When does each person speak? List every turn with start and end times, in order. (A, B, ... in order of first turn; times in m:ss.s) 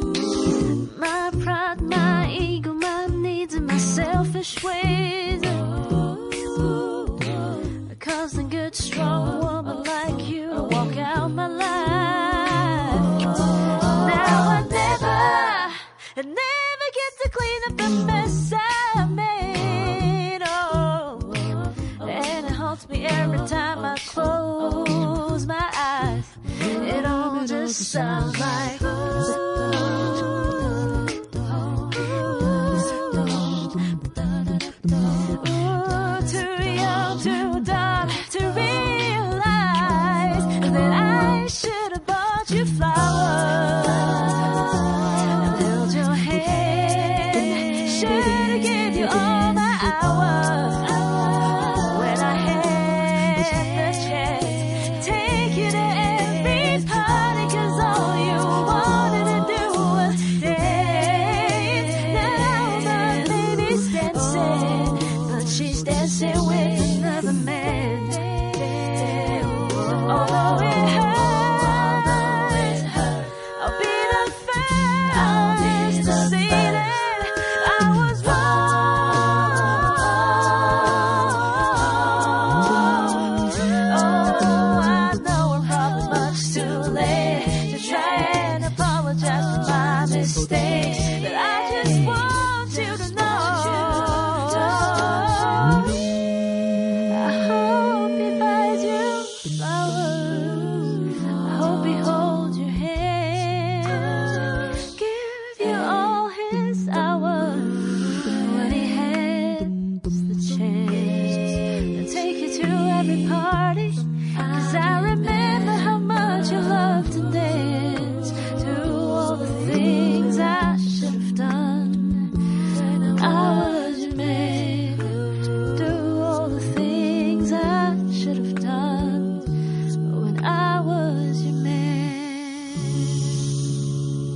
0:00.5-1:36.0 A
1:37.1-2:09.5 A
2:10.0-2:13.0 A